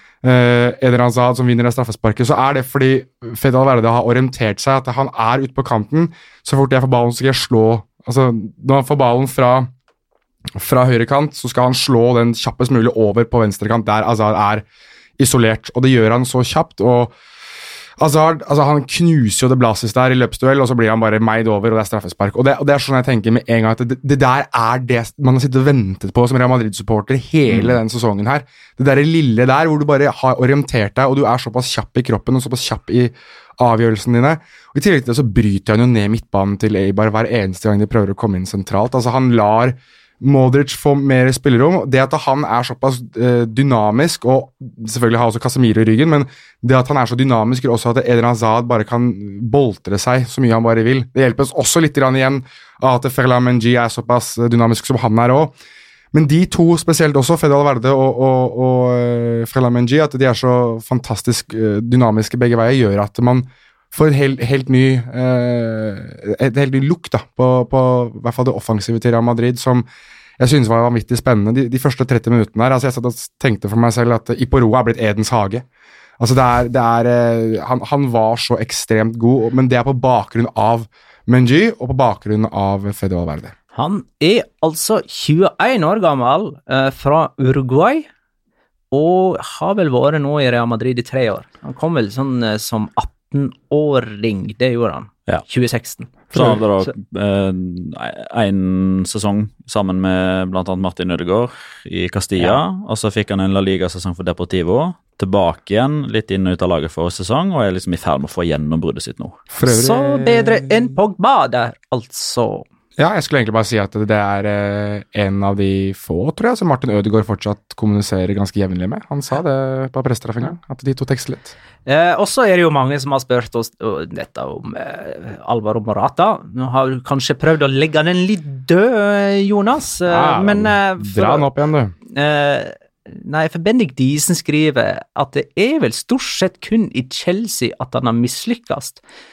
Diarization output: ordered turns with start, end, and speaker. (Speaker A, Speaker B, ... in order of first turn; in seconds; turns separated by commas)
Speaker A: 0.2-9.7, Speaker A: 10.5-14.6, Speaker A: 15.2-17.1, Speaker A: 18.0-55.5, Speaker A: 56.1-69.8, Speaker A: 70.4-75.6, Speaker A: 76.2-83.5, Speaker B: 83.7-88.1, Speaker B: 88.9-96.9, Speaker C: 96.3-109.4, Speaker A: 109.5-110.6, Speaker B: 109.7-112.6, Speaker A: 113.0-121.5, Speaker B: 121.8-131.5, Speaker A: 130.1-131.9, Speaker B: 132.1-139.0